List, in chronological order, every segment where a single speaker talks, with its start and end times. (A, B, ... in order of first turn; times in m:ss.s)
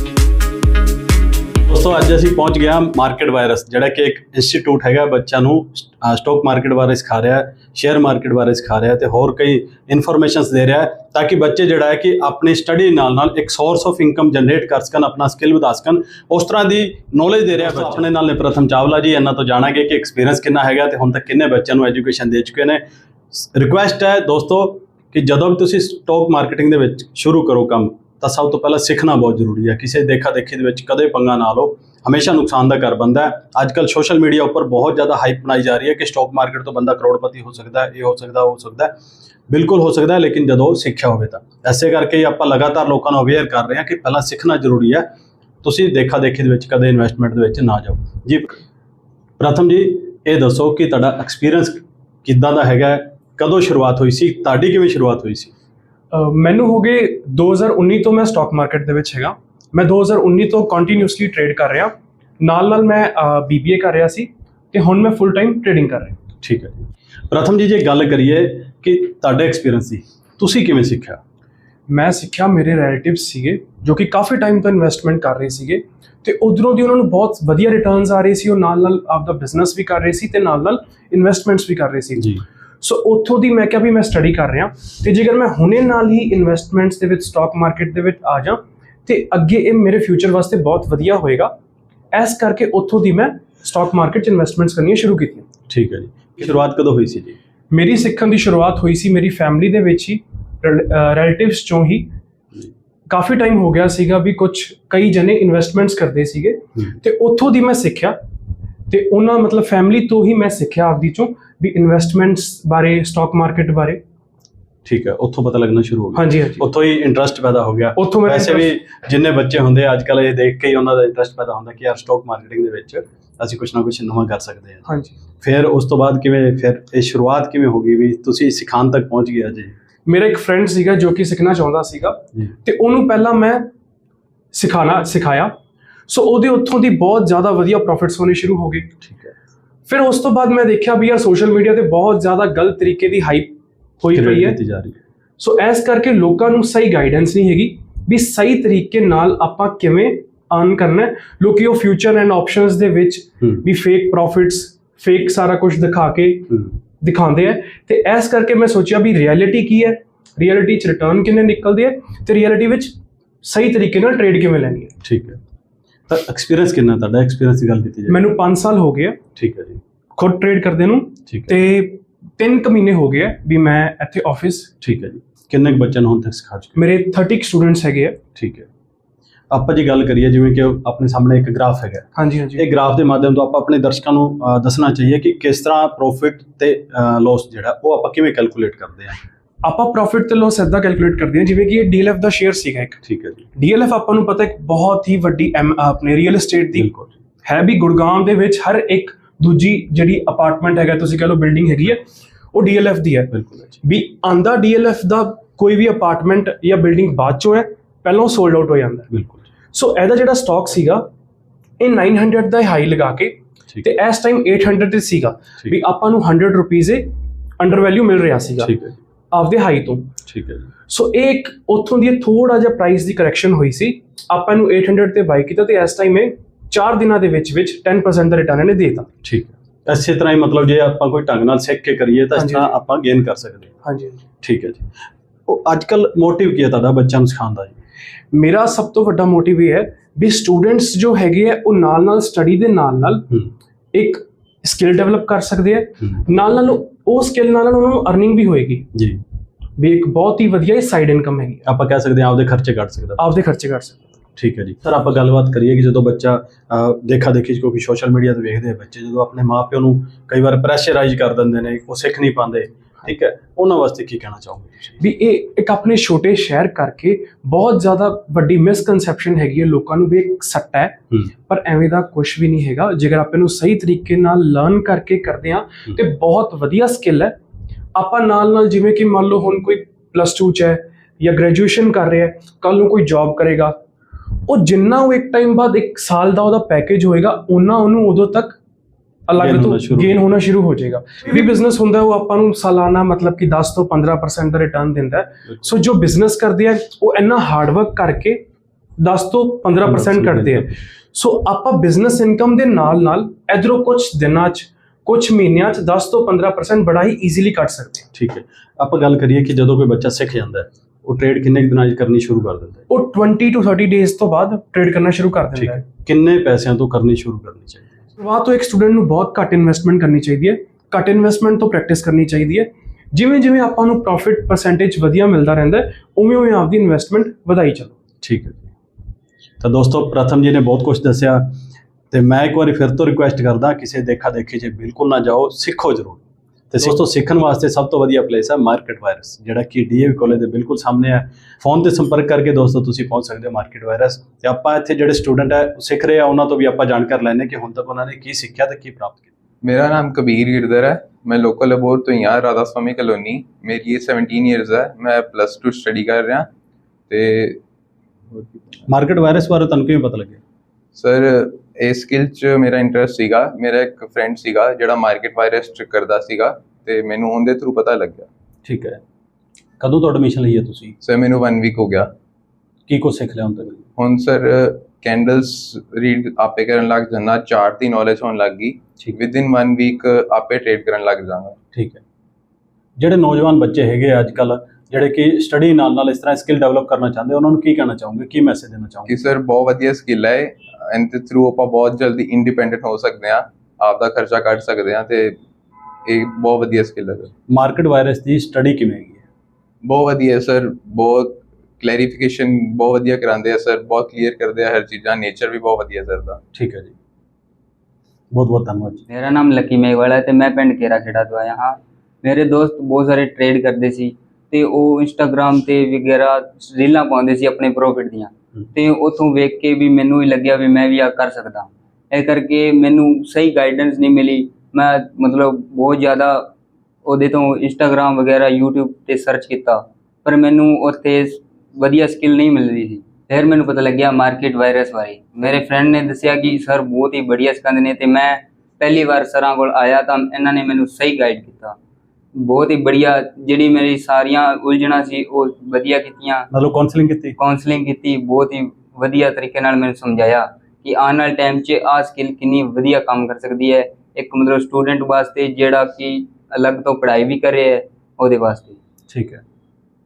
0:01.7-0:38.9 A
0:39.5-0:45.0 A
0:45.6-0:48.6 A
0:49.4-0:55.5 A
0:56.1-1:06.2 B
1:06.4-1:11.2 A
1:11.9-1:22.2 B
1:22.2-1:22.4 A
1:22.8-1:31.5 B
1:32.1-1:35.4 B
1:35.7-1:37.4 A
1:37.7-1:42.1 B
1:43.1-1:48.1 B
1:48.9-1:54.0 B
1:54.8-2:04.8 A
1:56.2-1:56.5 B
1:58.0-1:58.6 B
2:05.4-2:09.8 A
2:10.1-2:12.2 B
2:12.7-2:13.6 B
2:14.6-2:15.5 B
2:16.1-2:18.8 B
2:19.0-2:19.3 A
2:19.9-2:23.5 B
2:24.1-2:24.6 B
2:24.1-2:25.0 A
2:25.4-2:36.4 B
2:37.0-2:42.9 B
2:43.4-2:44.9 B
2:45.0-2:45.4 A
2:46.1-2:48.3 A
2:48.1-2:49.2 B
2:49.3-2:49.8 A
2:50.2-2:54.7 B
2:51.3-2:51.6 A
2:54.8-2:57.0 A
2:56.8-2:58.2 B
2:58.3-2:58.7 A
2:59.5-3:09.2 A
3:02.2-3:02.6 B
3:09.6-3:13.0 B
3:13.0-3:13.5 A
3:13.6-3:16.8 B
3:16.7-3:17.1 A
3:17.4-3:21.9 B
3:22.5-3:23.3 B
3:23.3-3:23.8 A
3:23.8-3:29.0 B
3:29.1-3:29.4 A
3:29.7-3:31.0 B
3:31.8-3:37.0 B
3:37.6-3:38.7 B
3:38.6-3:39.0 A
3:39.3-3:40.1 B
3:40.2-3:40.7 A
3:40.9-3:49.1 B
3:49.2-3:53.7 A
3:52.4-3:52.6 B
3:53.9-3:54.2 B
3:54.4-3:54.9 A
3:55.5-3:57.8 A
3:58.3-4:03.2 B
4:03.9-4:08.8 B
4:08.9-4:09.2 A
4:09.8-4:11.6 B
4:11.7-4:13.4 A
4:13.2-4:14.0 B
4:14.4-4:25.0 A
4:25.0-4:31.0 B
4:31.5-4:37.3 B
4:37.9-4:43.8 B
4:44.5-4:48.6 B
4:49.3-4:58.4 B
4:49.3-4:50.3 A
4:59.0-5:08.0 B
4:59.8-5:00.6 A
5:08.1-5:12.8 A
5:12.9-5:15.8 B
5:15.5-5:18.0 A
5:18.2-5:27.9 B
5:28.2-5:28.7 A
5:29.6-5:31.6 A
5:32.1-5:49.3 A
5:49.6-5:56.5 C
5:57.1-5:57.6 C
5:58.3-5:58.9 C
5:58.9-6:00.4 A
6:00.9-6:08.3 C
6:08.6-6:09.0 A
6:09.8-6:10.9 A
6:11.0-6:12.1 C
6:12.9-6:13.8 A
6:14.0-6:21.6 C
6:21.7-6:22.0 A
6:23.0-6:29.1 A
6:29.1-6:35.4 C
6:36.1-6:37.3 C
6:37.5-6:39.2 A
6:39.8-6:46.4 C
6:46.5-6:46.9 A
6:48.3-6:49.0 A
6:49.1-7:06.5 D
7:07.0-7:21.8 D
7:22.4-7:26.5 D
7:26.5-7:27.4 A
7:27.4-7:38.8 D
7:39.1-7:39.4 A